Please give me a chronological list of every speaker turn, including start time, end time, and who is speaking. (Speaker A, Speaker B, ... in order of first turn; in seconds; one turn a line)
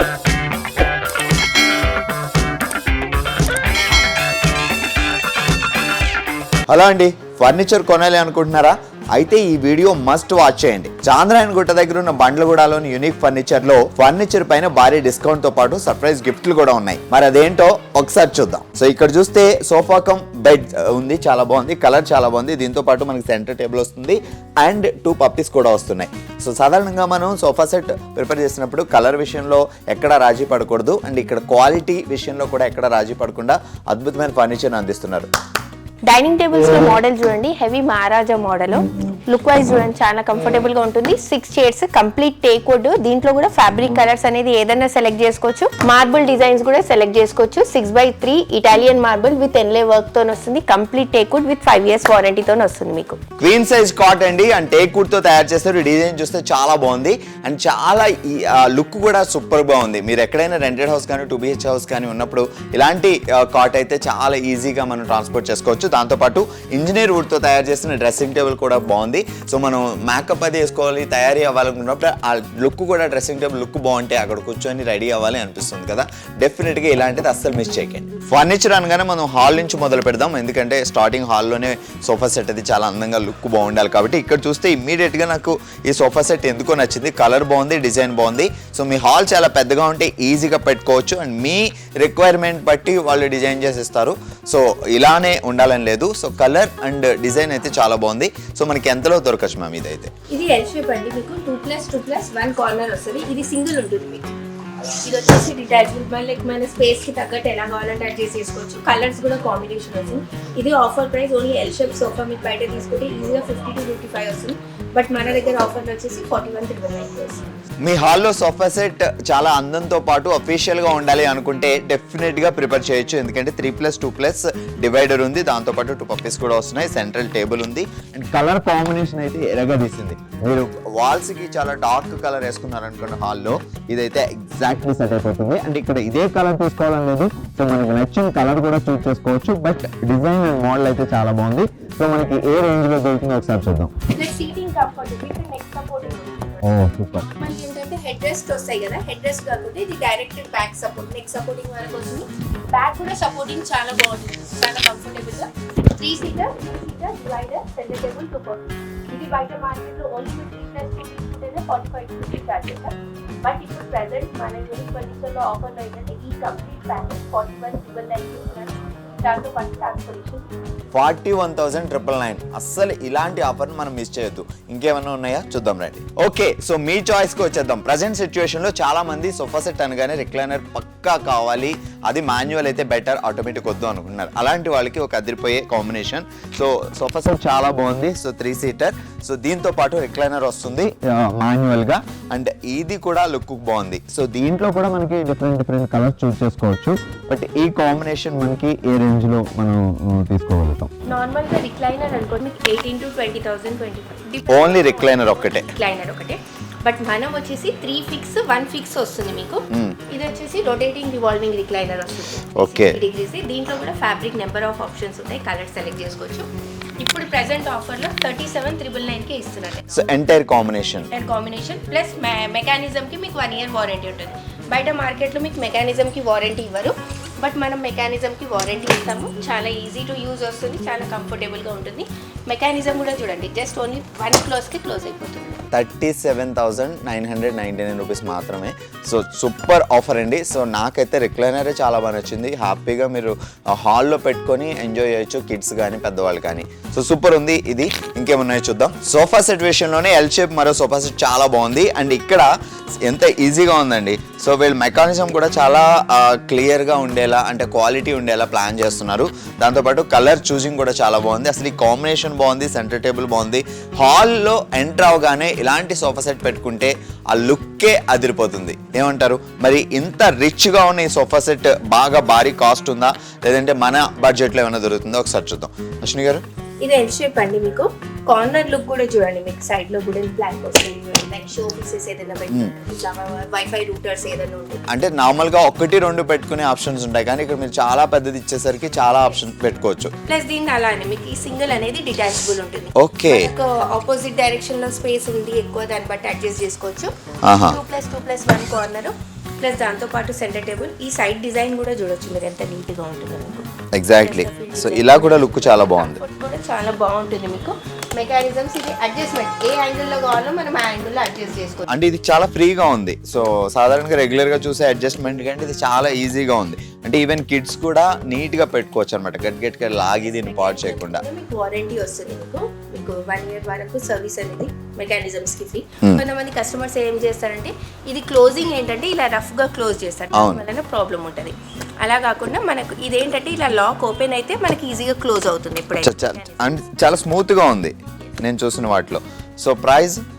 Speaker A: 6.7-35.3
Speaker B: 36.1-53.2
Speaker A: 53.4-100.1
Speaker B: 100.3-104.3
Speaker B: 104.9-117.4
Speaker A: 117.8-143.9
Speaker B: 144.1-170.5
Speaker A: 146.6-147.3
Speaker A: 170.9-200.9
Speaker B: 201.1-216.5
Speaker A: 204.5-205.7
Speaker A: 209.7-210.0
Speaker A: 212.5-213.0
Speaker B: 217.0-220.0
Speaker A: 219.9-221.1
Speaker B: 221.1-235.6
Speaker A: 235.7-252.5
Speaker A: 253.0-276.4
Speaker B: 276.8-284.8
Speaker A: 284.9-290.1
Speaker B: 290.3-311.9
Speaker A: 293.0-293.5
Speaker A: 297.4-297.8
Speaker A: 303.9-306.2
Speaker A: 311.9-321.2
Speaker B: 320.2-337.0
Speaker A: 330.3-330.6
Speaker A: 336.0-340.2